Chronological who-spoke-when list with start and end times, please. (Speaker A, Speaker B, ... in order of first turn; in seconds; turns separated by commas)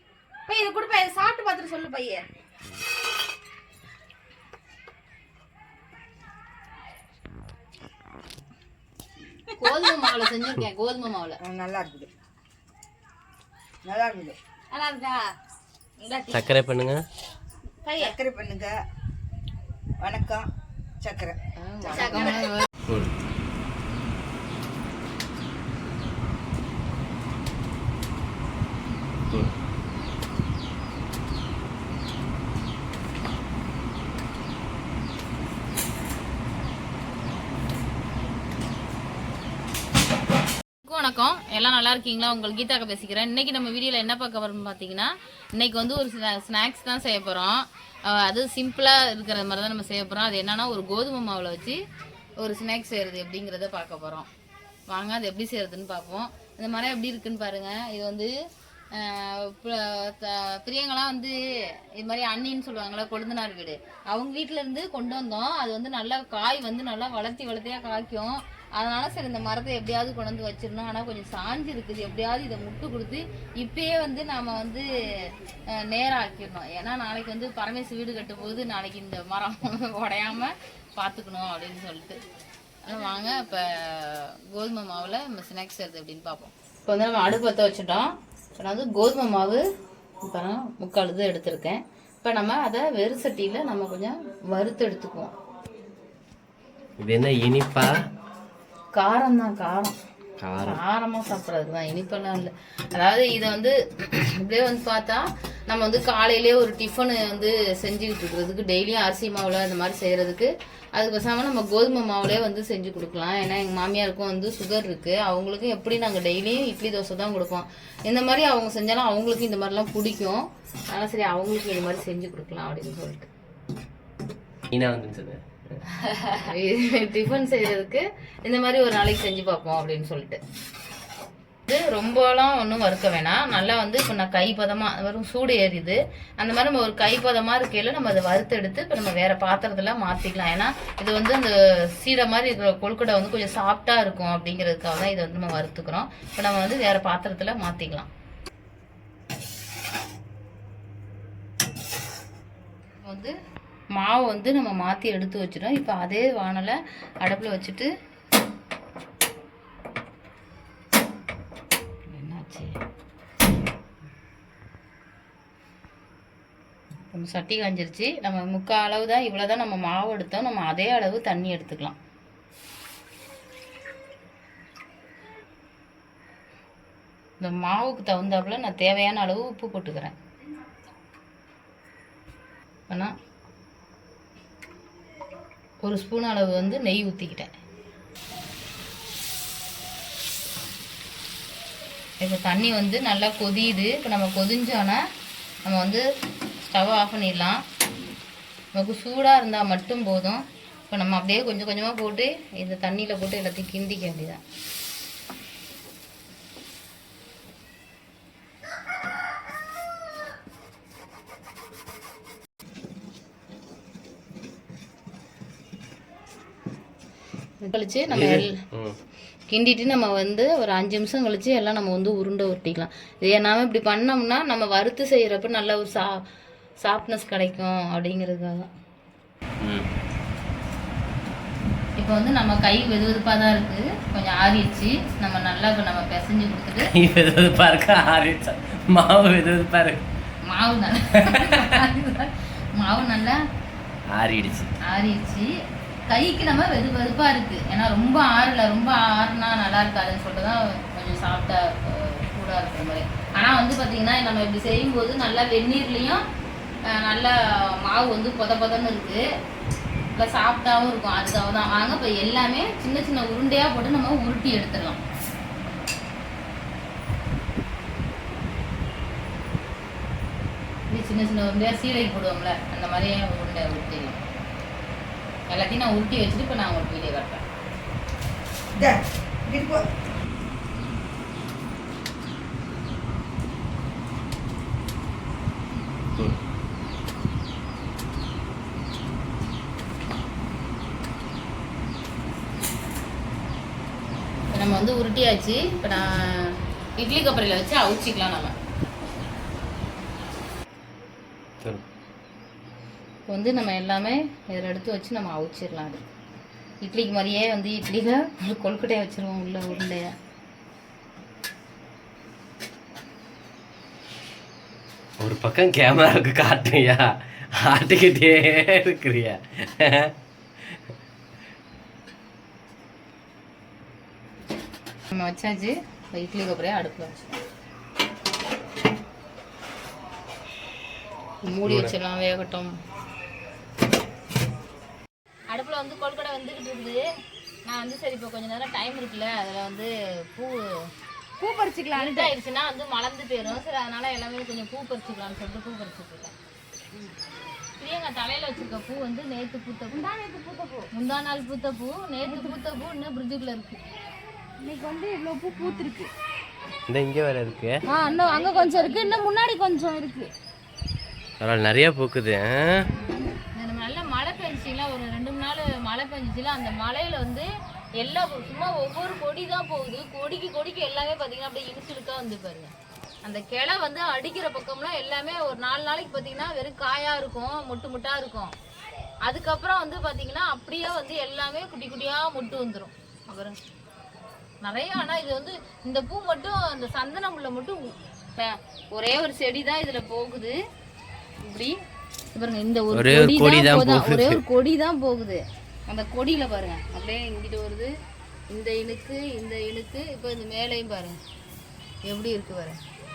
Speaker A: 0.5-2.2, Speaker A: 9.5-9.8, Speaker B: 9.6-11.4, Speaker C: 11.4-12.1, Speaker C: 13.8-14.4, Speaker A: 14.7-15.2, Speaker A: 16.0-16.5, Speaker D: 16.3-17.0, Speaker A: 17.9-18.2, Speaker C: 18.0-18.8, Speaker C: 20.0-20.5, Speaker C: 21.0-22.2, Speaker B: 21.6-22.6, Speaker A: 21.9-22.4, Speaker B: 40.8-51.8, Speaker B: 52.4-54.3, Speaker B: 54.9-58.3, Speaker B: 58.9-82.2, Speaker B: 82.8-89.7, Speaker B: 90.2-95.3, Speaker D: 97.0-97.9, Speaker B: 98.9-100.0, Speaker D: 100.4-100.8, Speaker B: 100.6-123.3, Speaker D: 124.7-125.8, Speaker B: 126.4-130.4, Speaker B: 131.7-148.1, Speaker B: 153.0-153.3, Speaker B: 153.9-157.9, Speaker B: 162.1-162.8, Speaker B: 167.1-172.0, Speaker B: 177.4-180.2, Speaker B: 185.8-187.5, Speaker B: 192.2-195.0, Speaker B: 195.7-196.0, Speaker B: 196.6-197.6, Speaker B: 198.7-204.4, Speaker B: 217.6-218.5, Speaker D: 218.1-219.0, Speaker B: 219.5-226.2, Speaker B: 226.8-228.7, Speaker D: 229.6-229.9, Speaker B: 232.0-236.9, Speaker D: 236.9-240.0, Speaker B: 240.5-243.4, Speaker D: 241.3-241.6, Speaker D: 244.1-244.7, Speaker B: 244.8-245.5, Speaker B: 246.1-256.2, Speaker B: 256.9-259.2, Speaker B: 260.1-265.0, Speaker B: 270.9-274.2, Speaker B: 275.5-277.4, Speaker C: 278.8-279.8, Speaker B: 294.5-298.5, Speaker B: 303.3-306.1, Speaker B: 306.8-310.1, Speaker D: 315.2-317.0, Speaker D: 317.6-320.1, Speaker B: 325.1-327.3, Speaker B: 331.4-332.7, Speaker D: 331.6-331.9, Speaker B: 335.5-337.0, Speaker B: 337.6-340.6, Speaker A: 341.4-342.3, Speaker B: 342.0-346.3, Speaker B: 347.8-350.0, Speaker A: 349.9-350.9, Speaker B: 350.9-353.8, Speaker A: 352.3-352.6, Speaker A: 354.6-356.1, Speaker B: 355.5-355.9, Speaker D: 356.9-357.8, Speaker A: 357.9-360.3, Speaker B: 357.9-359.3, Speaker D: 361.4-362.9, Speaker B: 363.5-372.7, Speaker B: 373.2-378.6, Speaker B: 379.2-383.6, Speaker B: 384.6-390.6, Speaker B: 391.4-391.8, Speaker B: 392.3-397.9, Speaker D: 392.9-394.4, Speaker B: 398.5-401.2, Speaker B: 402.1-402.8